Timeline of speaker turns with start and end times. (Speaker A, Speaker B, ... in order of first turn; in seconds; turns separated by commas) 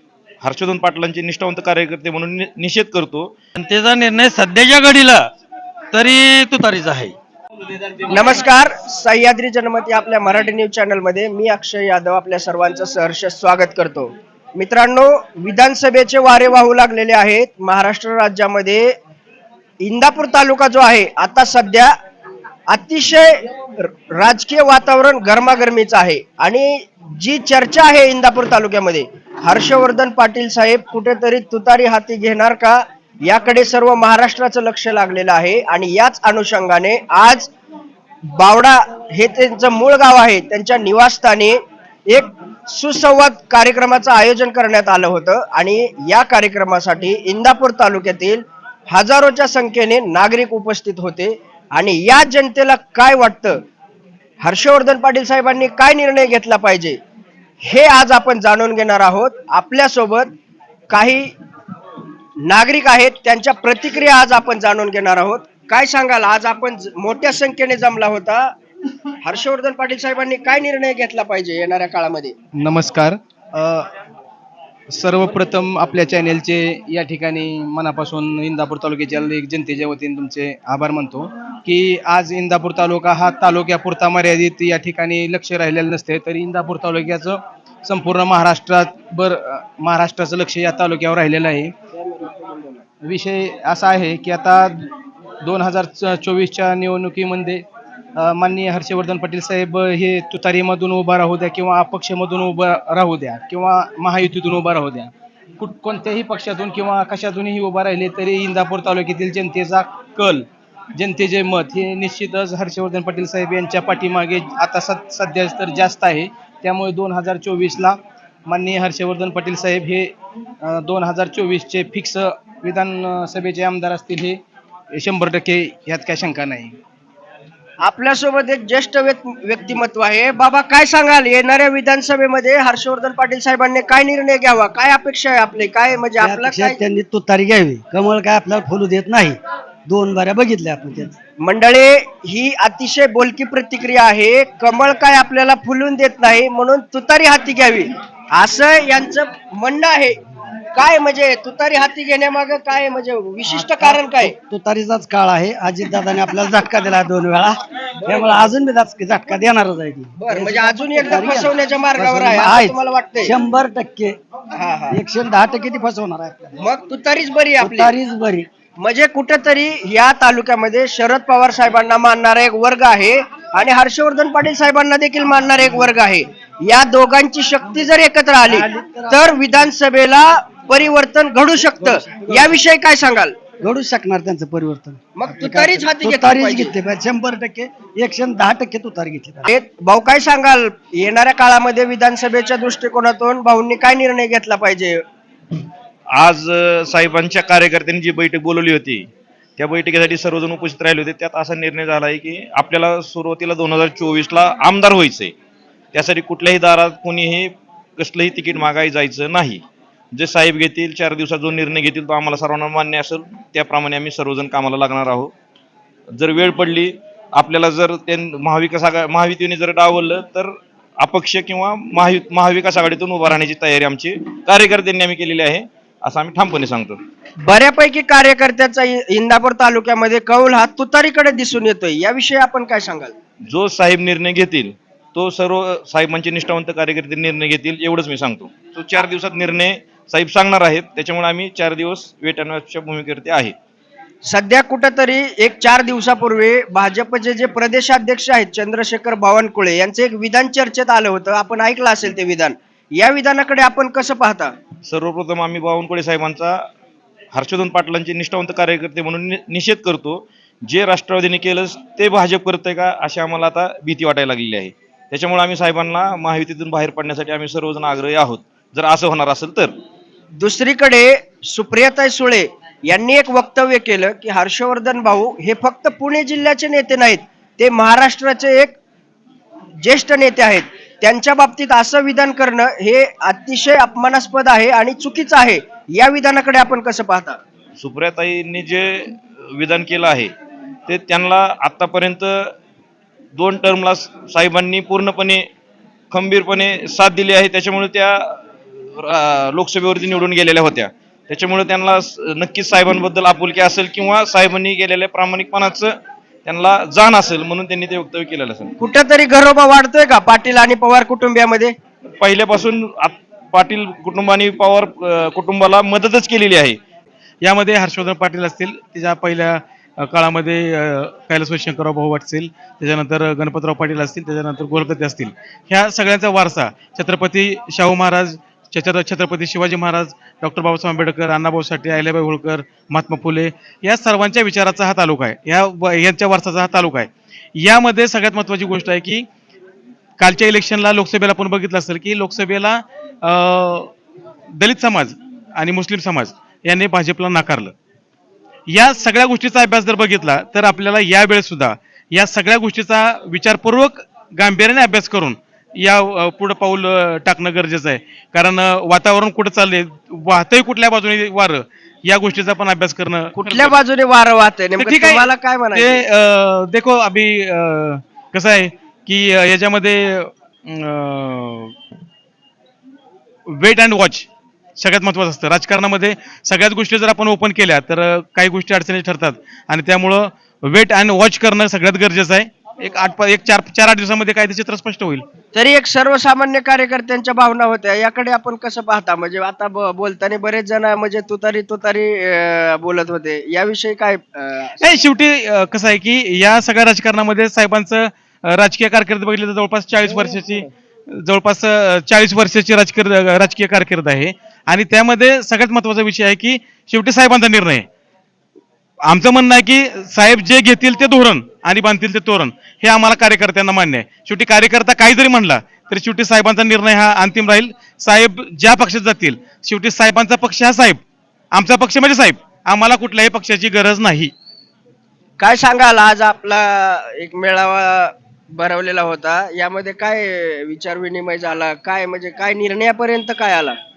Speaker A: 0.4-3.3, Speaker B: 3.6-5.3, Speaker B: 5.9-7.1, Speaker C: 8.1-18.9, Speaker C: 19.8-21.9, Speaker C: 22.7-37.5, Speaker C: 38.3-41.6, Speaker C: 42.1-53.6, Speaker C: 54.4-57.0, Speaker C: 57.6-60.3, Speaker C: 60.9-61.3, Speaker C: 62.4-68.5, Speaker C: 69.2-72.3, Speaker D: 72.5-73.9, Speaker D: 74.9-91.7, Speaker C: 92.0-92.8, Speaker D: 93.0-94.9, Speaker D: 95.5-97.6, Speaker D: 98.2-120.1, Speaker D: 120.6-124.4, Speaker D: 124.9-126.8, Speaker C: 127.8-136.8, Speaker E: 136.2-141.2, Speaker C: 141.4-150.2, Speaker C: 150.7-154.3, Speaker E: 153.5-164.2, Speaker C: 158.0-158.4, Speaker C: 160.2-163.4, Speaker C: 164.6-165.0, Speaker E: 164.9-166.5, Speaker C: 166.6-167.9, Speaker E: 167.6-168.5, Speaker C: 168.8-183.4, Speaker E: 178.4-179.2, Speaker E: 181.6-182.5, Speaker E: 183.6-189.5, Speaker C: 185.2-186.8, Speaker C: 189.5-195.0, Speaker A: 196.2-199.1, Speaker A: 199.6-205.3, Speaker A: 205.9-209.6, Speaker A: 210.2-215.3, Speaker A: 216.2-220.5, Speaker A: 221.0-227.0, Speaker C: 227.4-233.1, Speaker A: 233.5-243.5, Speaker C: 244.2-254.5, Speaker A: 254.9-256.6, Speaker A: 257.3-260.2, Speaker A: 260.7-269.7, Speaker C: 270.4-278.7, Speaker C: 279.8-287.4, Speaker A: 287.8-290.3, Speaker A: 290.9-292.5, Speaker A: 293.4-295.4, Speaker A: 296.1-305.9, Speaker A: 306.5-308.7, Speaker C: 308.8-311.8, Speaker A: 312.2-316.8, Speaker F: 317.4-339.3, Speaker F: 340.2-343.9, Speaker F: 344.6-347.7, Speaker F: 348.7-363.7, Speaker C: 363.4-366.0, Speaker F: 364.8-371.7, Speaker F: 373.5-374.3, Speaker F: 374.8-385.2, Speaker C: 385.5-395.1, Speaker F: 394.8-407.9, Speaker F: 409.1-421.0, Speaker F: 421.5-424.3, Speaker C: 425.4-433.8